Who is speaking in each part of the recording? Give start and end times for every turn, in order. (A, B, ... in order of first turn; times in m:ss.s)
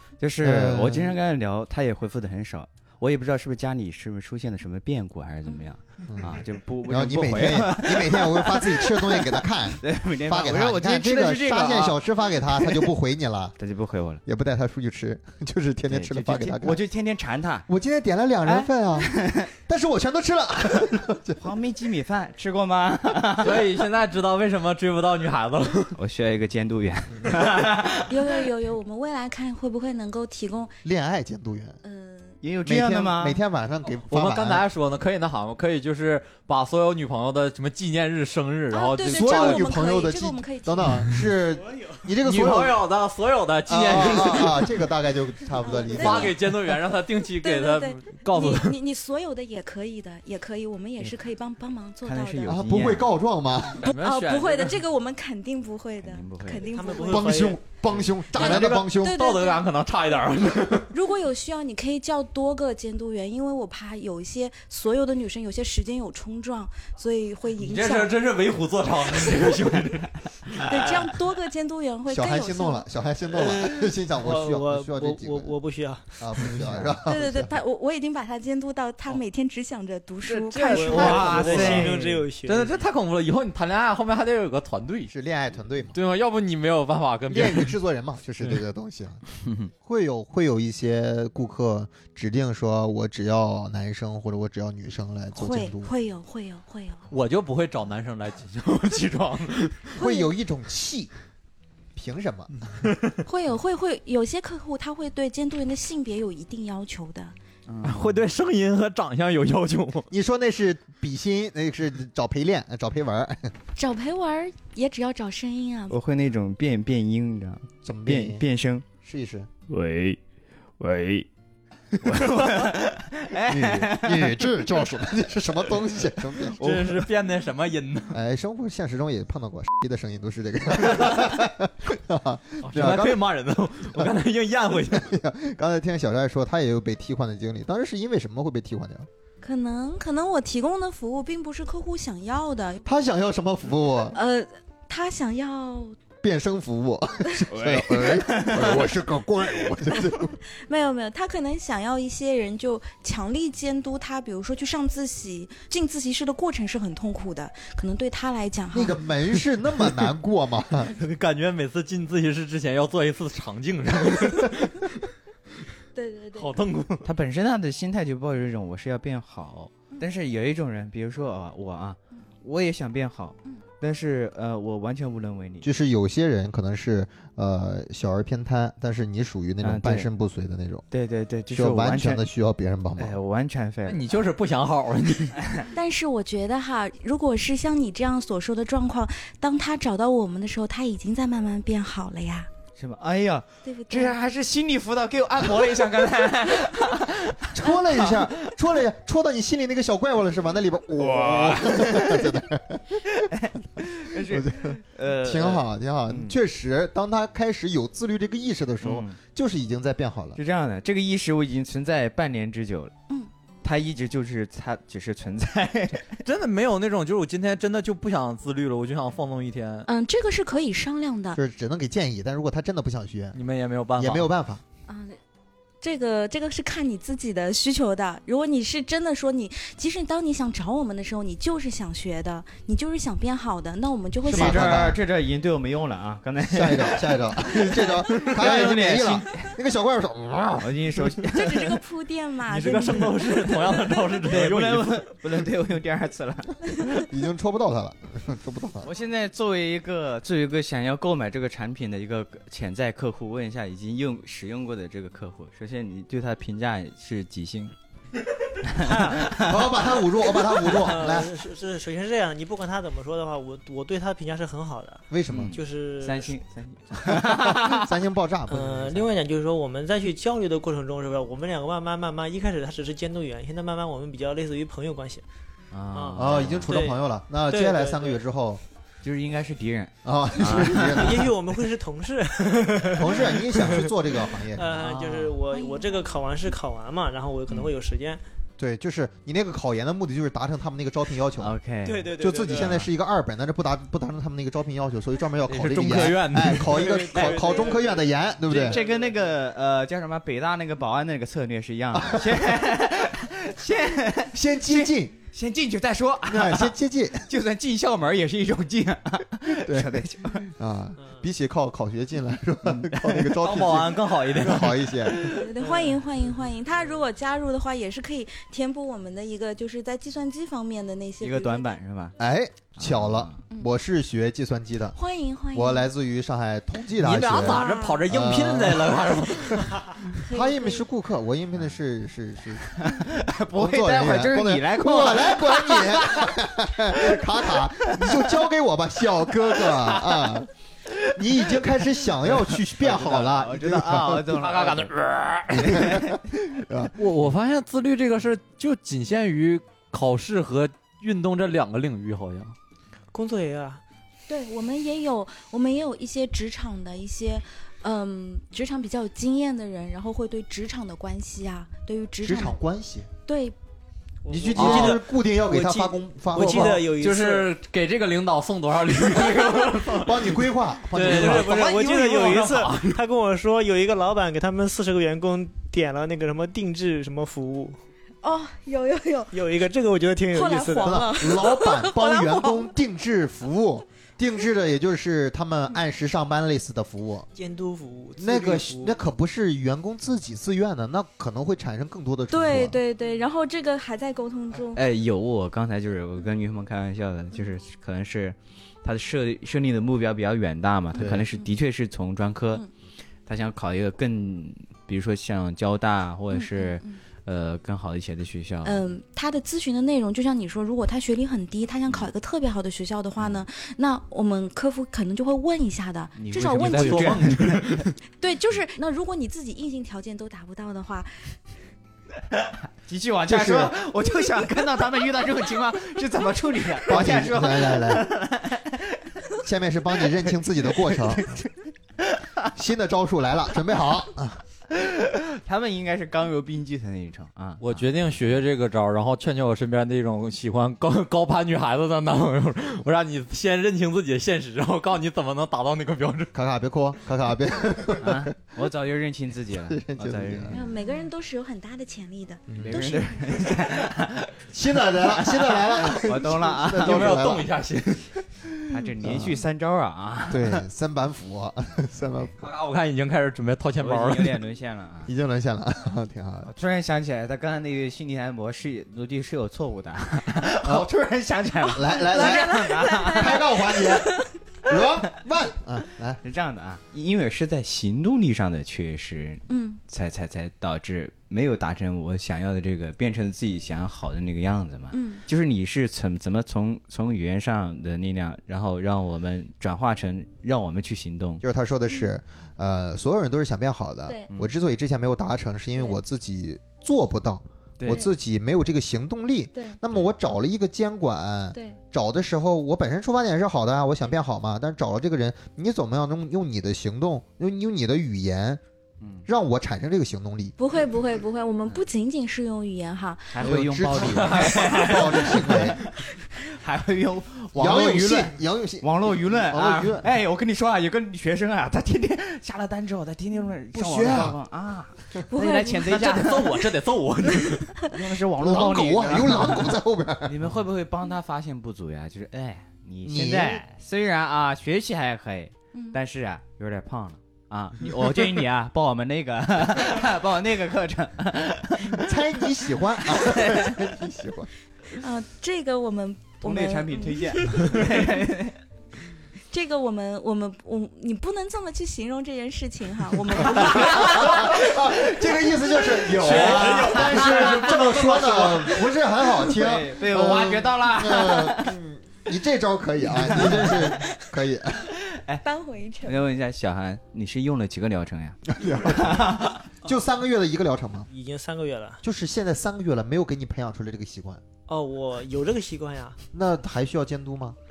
0:00.2-0:12.9 A
0:00.4-0:01.2 B
0:06.1-0:13.6 B
0:13.6-0:14.2 A
0:14.3-0:16.8 B
0:15.9-0:17.7 A
0:17.7-0:21.4 B
0:18.5-0:19.5 A
0:21.4-0:23.7 A
0:23.4-0:26.0 C
0:26.0-0:28.2 A
0:28.1-0:30.8 D
0:30.8-0:31.8 B
0:31.8-0:32.4 D
0:32.4-0:33.4 A
0:32.6-0:34.6 B
0:34.1-0:39.7 C
0:38.7-0:41.0 D
0:39.1-0:42.8 B
0:41.6-0:42.0 E
0:42.2-0:44.8 C
0:43.7-0:46.4 B
0:45.6-0:46.4 D
0:46.0-0:48.8 C
0:47.4-0:52.6 D
0:52.0-0:53.1 A
0:52.5-0:53.9 B
0:53.8-0:54.8 C
0:53.8-0:57.5 D
0:56.0-0:56.7 A
0:56.7-0:57.6 E
0:57.1-0:59.2 B
0:58.3-1:00.9 C
0:58.4-0:59.6 D
1:00.9-1:08.2 D
1:07.6-1:10.9 C
1:10.6-1:12.9 D
1:12.1-1:15.5 B
1:13.5-1:16.6 E
1:16.2-1:17.5 B
1:17.1-1:21.6 D
1:20.2-1:25.1 C
1:20.7-1:22.8 E
1:20.9-1:22.0 A
1:25.1-1:26.0 B
1:25.9-1:27.7 C
1:27.3-1:29.2 B
1:29.8-1:35.9 B
1:35.3-1:37.0 D
1:37.1-1:39.9 C
1:40.0-1:41.1 B
1:40.0-1:40.3 D
1:42.0-1:42.5 B
1:42.8-1:43.1 C
1:43.2-1:47.4 D
1:47.7-1:48.2 A
1:47.8-1:50.1 C
1:50.1-1:53.5 B
1:53.8-1:56.0 D
1:55.9-1:58.8 A
1:57.8-1:58.4 B
1:59.0-1:59.5 B
1:59.7-2:00.2 A
2:00.8-2:01.3 A
2:02.0-2:04.6 A
2:03.5-2:06.7 B
2:06.6-2:08.2 C
2:06.6-2:07.1 A
2:08.1-2:13.2 B
2:12.6-2:15.1 C
2:14.9-2:19.1 B
2:19.4-2:22.8 D
2:22.8-2:24.2 B
2:24.1-2:26.0 D
2:26.2-2:30.4 B
2:27.5-2:29.0 A
2:30.5-2:39.0 D
2:38.7-2:40.9 B
2:40.9-2:45.0 C
2:46.0-2:46.6 D
2:46.4-2:47.1 C
2:47.0-2:55.7 A
2:55.6-3:00.8 B
2:59.6-3:00.1 A
3:00.9-3:02.2 A
3:01.5-3:03.2 B
3:03.0-3:04.2 A
3:03.9-3:05.4 C
3:05.4-3:05.7 A
3:05.7-3:12.5 D
3:12.8-3:18.5 A
3:13.6-3:14.2 D
3:17.5-3:23.2 B
3:21.0-3:22.4 A
3:23.1-3:26.4 A
3:24.3-3:30.4 B
3:28.8-3:29.2 A
3:30.4-3:32.9 A
3:33.6-3:36.2 A
3:36.2-3:39.9 C
3:39.9-3:41.4 D
3:41.4-3:43.4 B
3:43.3-3:44.3 C
3:44.0-3:44.6 B
3:44.9-3:45.2 D
3:45.8-3:54.8 D
3:54.3-3:55.0 B
3:54.3-3:59.5 A
3:56.5-4:00.8 B
4:00.6-4:01.8 A
4:01.3-4:03.6 D
4:02.5-4:05.0 C
4:04.2-4:06.6 A
4:06.9-4:08.9 B
4:08.8-4:17.7 A
4:18.6-4:19.6 A
4:18.8-4:19.2 E
4:19.3-4:21.3 B
4:20.7-4:26.4 E
4:25.1-4:25.6 B
4:25.3-4:28.0 A
4:27.1-4:29.1 B
4:28.5-4:35.2 E
4:35.7-4:36.8 A
4:35.9-4:38.2 E
4:36.2-4:38.6 B
4:39.0-4:41.2 A
4:40.0-4:41.3 B
4:40.7-4:48.2 E
4:43.0-4:44.8 B
4:44.8-4:45.3 A
4:45.5-4:46.5 D
4:48.6-4:51.6 B
4:51.4-4:52.9 A
4:51.8-4:52.9 E
4:52.2-4:58.8 B
4:55.5-4:56.8 C
4:56.7-4:58.1 E
4:57.2-4:57.5 A
4:58.5-5:10.5 A
4:58.6-4:59.2 E
5:01.9-5:02.4 B
5:04.3-5:05.2 B
5:06.3-5:07.3 B
5:09.5-5:15.3 B
5:11.0-5:11.2 E
5:12.7-5:13.3 A
5:13.4-5:15.5 C
5:15.3-5:21.7 D
5:15.6-5:16.0 E
5:21.2-5:22.2 A
5:22.2-5:25.0 B
5:22.8-5:23.4 A
5:25.0-5:25.9 D
5:25.5-5:29.7 B
5:27.0-5:29.8 C
5:27.4-5:28.0 D
5:30.2-5:30.8 D
5:30.3-5:32.8 B
5:32.8-5:36.4 A
5:33.5-5:40.5 B
5:36.9-5:38.4 A
5:39.6-5:44.9 A
5:41.1-5:44.3 B
5:44.3-5:45.8 C
5:45.5-5:46.9 B
5:45.7-5:46.2 A
5:47.0-5:52.6 C
5:53.1-5:53.8 E
5:54.3-6:02.6 D
6:02.2-6:03.1 B
6:03.3-6:03.6 D
6:04.2-6:07.5 E
6:04.3-6:06.9 B
6:04.5-6:05.0 C
6:06.7-6:13.0 C
6:10.0-6:11.5 B
6:11.0-6:17.8 E
6:18.2-6:19.4 D
6:19.3-6:21.0 E
6:20.3-6:22.7 D
6:20.8-6:27.3 B
6:27.4-6:29.0 E
6:28.2-6:32.8 B
6:32.3-6:34.8 D
6:34.7-6:42.6 A
6:41.0-6:41.3 B
6:43.3-6:48.8 A
6:46.3-6:47.0 D
6:48.6-6:57.2 D
6:56.2-6:57.8 A
6:56.6-6:58.0 C
6:58.2-7:01.4 D
7:02.4-7:09.1 A
7:03.3-7:03.8 B
7:06.9-7:08.1 B
7:09.4-7:11.3 B
7:10.3-7:12.4 A
7:12.5-7:14.4 B
7:14.7-7:17.9 A
7:17.6-7:26.3 C
7:26.3-7:28.3 B
7:28.0-7:30.7 A
7:29.5-7:30.6 B
7:30.5-7:33.6 D
7:32.5-7:33.0 B
7:32.6-7:37.3 A
7:34.5-7:37.5 B
7:36.7-7:38.1 C
7:38.7-7:40.6 A
7:39.0-7:39.4 B
7:40.3-7:42.5 B
7:42.4-7:44.4 C
7:43.8-7:45.1 A
7:45.1-7:46.5 B
7:46.5-7:53.5 A
7:50.6-7:50.9 B
7:51.7-7:54.1 B
7:52.1-7:54.3 D
7:54.7-7:56.2 B
7:56.2-8:11.4 A
7:59.5-7:59.8 D
8:04.9-8:05.2 D
8:11.4-8:28.6 B
8:17.8-8:18.1 A
8:19.5-8:19.8 D
8:29.0-8:29.3 A
8:29.3-8:30.5 B
8:30.6-8:33.4 D
8:33.3-8:46.8 A
8:33.4-8:35.8 B
8:37.6-8:40.1 B
8:43.7-8:44.4 B
8:45.3-8:46.0 D
8:45.8-8:47.9 C
8:47.8-9:03.8 A
8:48.4-8:50.4 B
8:53.0-8:53.6 B
9:01.9-9:04.5 B
9:04.9-9:08.1 D
9:06.4-9:08.6 A
9:09.5-9:14.7 D
9:13.4-9:24.9 B
9:16.2-9:18.7 C
9:16.3-9:17.5 A
9:19.4-9:21.8 A
9:23.1-9:24.0 A
9:24.9-9:25.4 A
9:25.4-9:26.2 D
9:26.0-9:29.6 A
9:28.5-9:31.1 B
9:31.1-9:32.0 E
9:32.0-9:34.4 B
9:34.7-9:36.2 E
9:36.3-9:37.6 B